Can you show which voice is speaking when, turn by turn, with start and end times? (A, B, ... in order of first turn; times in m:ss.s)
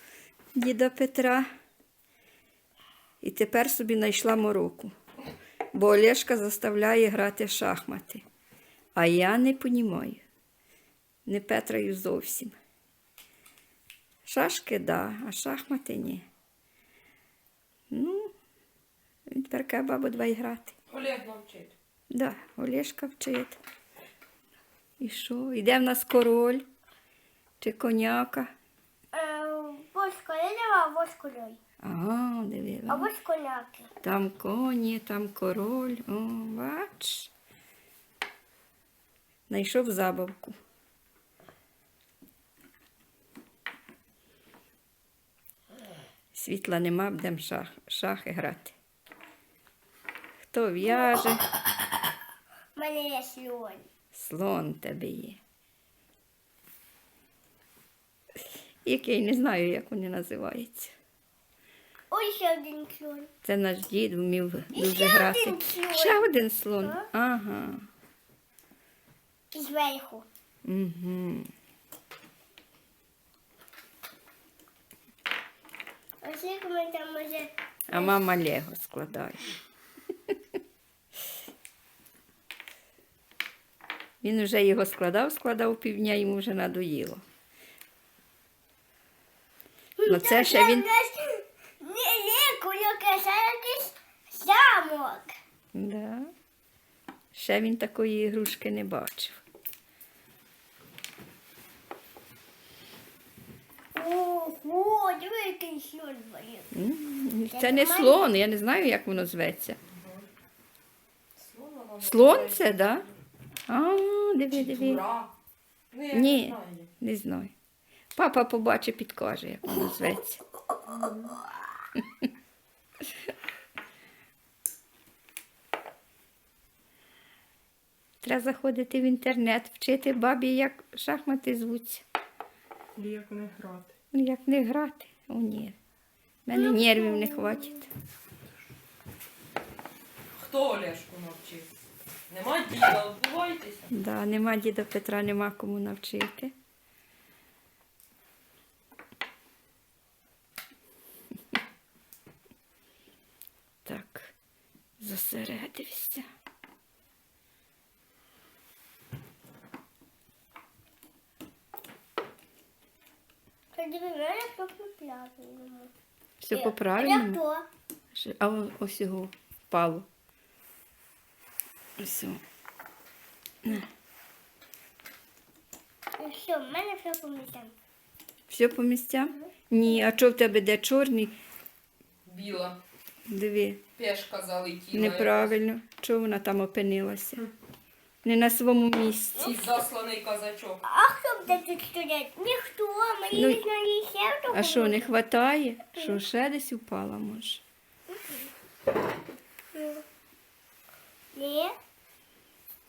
0:00.6-0:01.5 A
0:03.2-0:04.9 A
0:05.7-0:08.2 A
0:09.0-0:10.2 A
0:11.3-0:12.6 A
0:14.2-0:16.3 A
0:17.9-0:18.3 A
0:19.3-0:20.8 A
0:20.9-0:21.7 B
0:22.1-0:23.6 A
0:25.0-0:26.7 A
0:27.6-0:28.5 A
0:29.1-0:31.6 C
0:31.8-0:33.1 A
0:32.9-0:33.9 C
0:34.0-0:37.3 A
0:39.5-0:40.6 A
0:46.3-0:48.7 A
0:50.4-0:51.4 A
0:52.8-0:53.9 C
0:54.1-0:55.4 A
0:58.8-1:01.0 A
1:02.1-1:03.3 C
1:03.4-1:07.9 A
1:04.7-1:06.2 C
1:06.8-1:07.1 C
1:09.5-1:10.3 C
1:10.6-1:11.5 A
1:16.2-1:18.1 C
1:17.9-1:19.5 A
1:24.2-1:27.2 A
1:30.0-1:35.3 C
1:30.1-1:30.9 A
1:35.7-1:36.3 A
1:37.3-1:39.4 A
1:44.0-1:46.7 C
1:46.7-1:49.8 A
1:47.5-1:48.2 C
1:51.4-1:53.1 B
1:52.0-1:53.0 A
1:53.7-1:55.0 A
1:54.5-1:55.3 B
1:55.9-1:56.9 B
1:56.1-1:57.5 A
1:58.2-2:00.4 A
2:02.0-2:02.3 A
2:08.2-2:12.0 A
2:13.0-2:13.9 B
2:14.1-2:15.8 A
2:16.4-2:17.9 A
2:16.5-2:17.8 C
2:20.4-2:21.7 B
2:22.3-2:23.9 B
2:23.9-2:26.5 A
2:33.8-2:34.4 A
2:35.0-2:36.3 A
2:43.7-2:45.9 C
2:46.4-2:47.4 A
2:46.5-2:47.7 C
2:48.1-2:50.1 A
2:52.0-2:52.4 A
2:53.6-2:53.9 A
2:56.2-2:57.8 C
2:58.5-3:01.4 A
3:02.3-3:02.8 B
3:03.3-3:03.8 A
3:04.0-3:05.5 B
3:04.9-3:07.5 A
3:08.2-3:09.5 A
3:09.4-3:10.8 B
3:10.8-3:15.1 C
3:13.3-3:13.6 A
3:14.5-3:17.6 A
3:18.1-3:18.4 C
3:19.8-3:20.0 C
3:21.4-3:21.8 C